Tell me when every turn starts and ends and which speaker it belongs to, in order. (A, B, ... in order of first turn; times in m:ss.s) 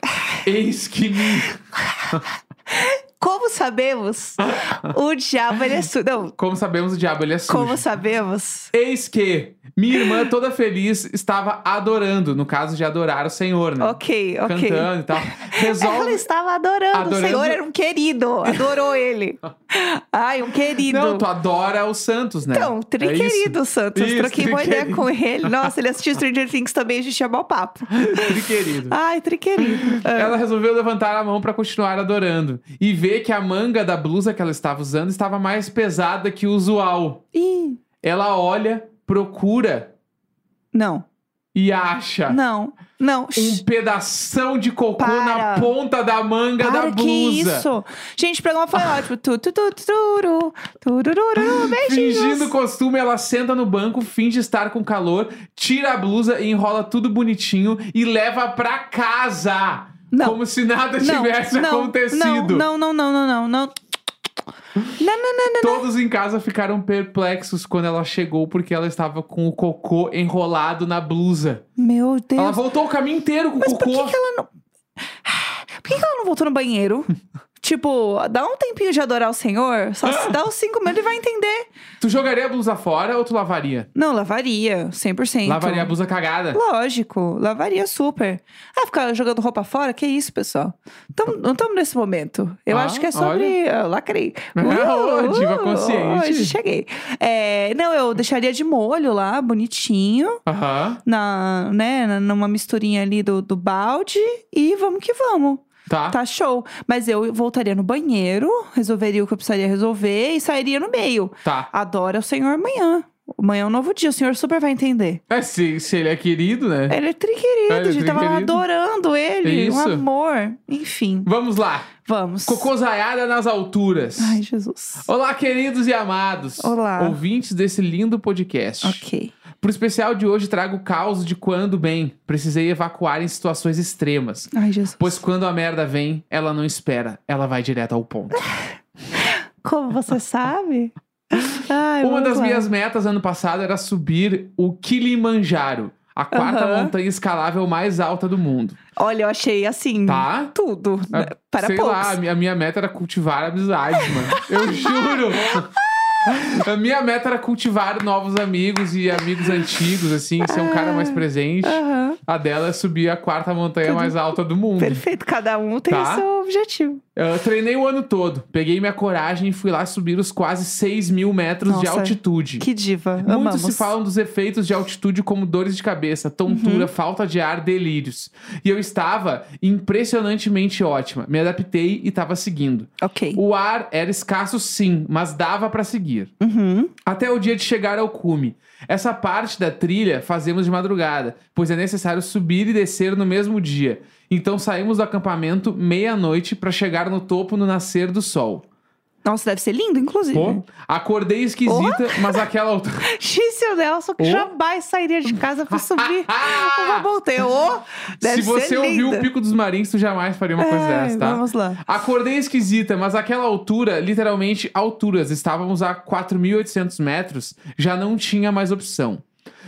0:00.4-0:02.2 A
0:02.0-0:06.4 B
0:04.4-0:05.0 A
0:06.4-0:07.8 A
0:07.5-0:08.7 B
0:08.7-0:16.2 A
0:09.9-0:10.2 B
0:13.8-0:21.3 B
0:16.9-0:17.6 A
0:18.4-0:18.9 A
0:20.9-0:25.7 A
0:22.5-0:30.4 B
0:27.9-0:29.0 A
0:29.7-0:37.2 A
0:37.3-0:37.8 B
0:38.0-0:39.9 A
0:40.7-0:41.0 B
0:41.6-0:42.4 A
0:42.3-0:43.6 B
0:43.4-0:47.7 A
0:45.0-0:45.7 B
0:46.6-0:52.5 B
0:51.4-1:02.6 A
1:00.1-1:00.4 B
1:01.0-1:03.7 B
1:05.0-1:05.9 B
1:05.6-1:11.6 A
1:11.8-1:12.6 B
1:12.4-1:14.2 A
1:13.6-1:14.5 B
1:15.2-1:21.7 B
1:20.0-1:20.4 A
1:22.0-1:23.9 A
1:23.9-1:26.0 B
1:25.4-1:26.6 A
1:26.5-1:40.4 B
1:32.7-1:33.6 A
1:34.6-1:36.6 A
1:40.5-1:41.0 A
1:41.0-1:55.2 B
1:45.9-1:46.2 A
1:55.3-1:57.0 A
1:56.9-2:01.3 B
1:57.7-1:58.6 A
1:59.4-2:00.0 A
2:01.3-2:01.9 A
2:02.0-2:02.7 B
2:02.5-2:04.4 A
2:04.2-2:05.1 B
2:05.1-2:09.0 A
2:06.6-2:07.2 B
2:08.8-2:09.3 B
2:09.6-2:18.4 A
2:14.5-2:15.2 B
2:19.2-2:22.7 B
2:22.0-2:28.8 A
2:26.3-2:26.9 B
2:29.0-2:32.2 B
2:30.1-2:30.5 A
2:31.1-2:35.7 A
2:34.0-2:36.2 B
2:36.2-2:45.0 A
2:40.4-2:42.2 B
2:43.8-2:44.2 B
2:44.8-2:47.0 B
2:45.9-2:46.2 A
2:47.2-2:52.7 A
2:51.6-2:53.9 B
2:53.2-3:06.3 A
2:56.5-2:56.9 B
3:03.0-3:03.4 B
3:06.4-3:06.9 B
3:07.1-3:18.7 A
3:19.2-3:20.6 B
3:20.3-3:23.1 A
3:21.7-3:22.4 B
3:23.1-3:29.3 B
3:24.2-3:24.5 A
3:25.7-3:27.1 A
3:28.2-3:39.2 A
3:30.6-3:31.8 B